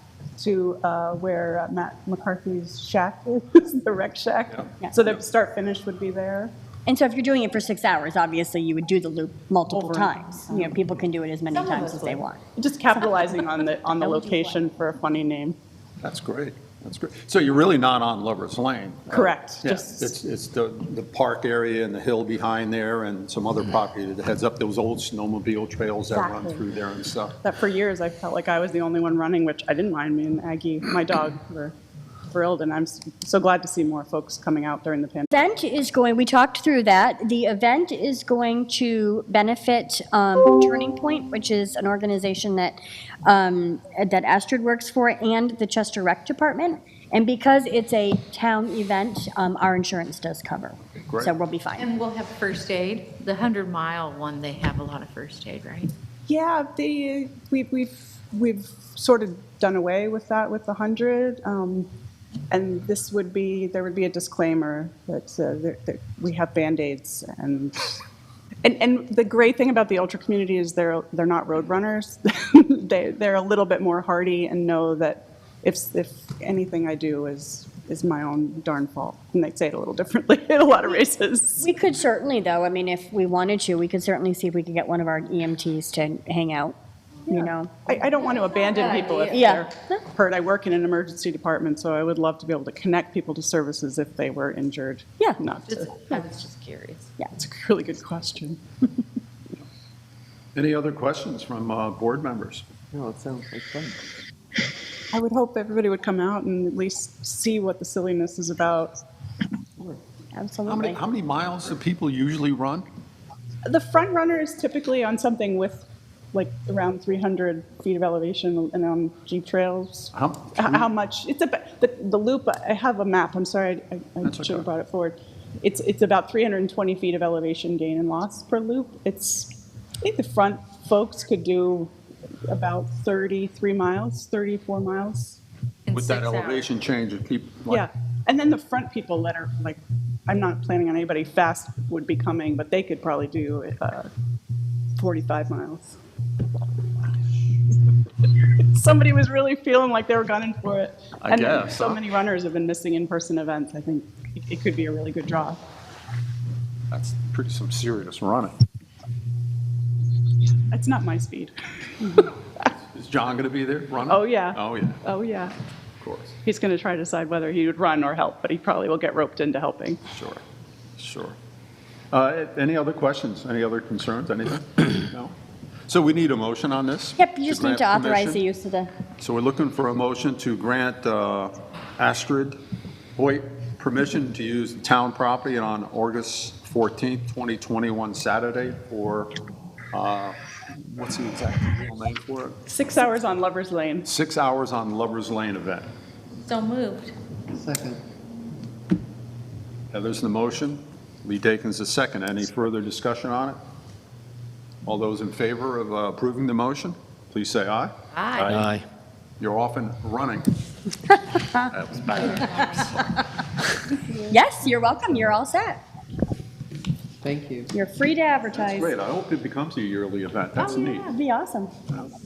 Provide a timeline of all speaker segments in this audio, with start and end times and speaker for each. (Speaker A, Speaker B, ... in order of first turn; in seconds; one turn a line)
Speaker A: 0.4-6.5
Speaker B: 6.9-12.4
Speaker A: 9.7-10.8
Speaker C: 11.5-12.3
Speaker A: 12.6-15.6
Speaker B: 14.0-14.6
Speaker D: 16.0-27.4
Speaker A: 19.1-20.1
Speaker A: 26.1-26.7
Speaker A: 27.4-31.8
Speaker A: 32.3-35.3
Speaker B: 35.3-51.9
Speaker D: 50.9-51.4
Speaker C: 51.8-55.9
Speaker A: 56.3-61.9
Speaker A: 62.5-68.0
Speaker A: 68.6-81.7
Speaker B: 81.6-86.8
Speaker B: 87.3-87.8
Speaker A: 87.3-96.3
Speaker C: 88.4-89.4
Speaker B: 89.3-90.0
Speaker C: 95.7-97.1
Speaker A: 97.3-98.6
Speaker D: 100.5-102.6
Speaker E: 102.9-104.0
Speaker A: 105.1-109.0
Speaker B: 110.3-111.0
Speaker D: 110.7-112.9
Speaker A: 113.7-131.9
Speaker D: 120.1-120.9
Speaker D: 124.2-124.7
Speaker A: 132.5-135.4
Speaker C: 135.9-136.7
Speaker D: 135.9-137.9
Speaker A: 137.7-144.1
Speaker A: 145.0-146.0
Speaker A: 148.6-155.6
Speaker D: 151.2-152.0
Speaker D: 156.9-158.6
Speaker A: 160.7-162.3
Speaker D: 162.8-165.0
Speaker A: 164.1-165.5
Speaker D: 166.0-166.4
Speaker A: 166.4-170.0
Speaker D: 170.1-170.4
Speaker D: 171.0-171.4
Speaker D: 172.1-175.3
Speaker D: 175.9-178.4
Speaker B: 177.2-178.9
Speaker D: 179.2-182.6
Speaker D: 183.2-189.3
Speaker D: 189.9-192.6
Speaker A: 192.7-194.1
Speaker D: 194.0-195.9
Speaker C: 196.4-197.1
Speaker E: 197.5-198.0
Speaker D: 199.9-203.6
Speaker D: 204.9-208.7
Speaker C: 208.1-208.7
Speaker D: 209.4-210.5
Speaker D: 211.6-212.8
Speaker C: 212.1-212.9
Speaker B: 214.3-215.8
Speaker E: 217.2-217.7
Speaker B: 217.7-218.9
Speaker D: 218.5-221.1
Speaker B: 220.6-221.7
Speaker C: 220.8-221.1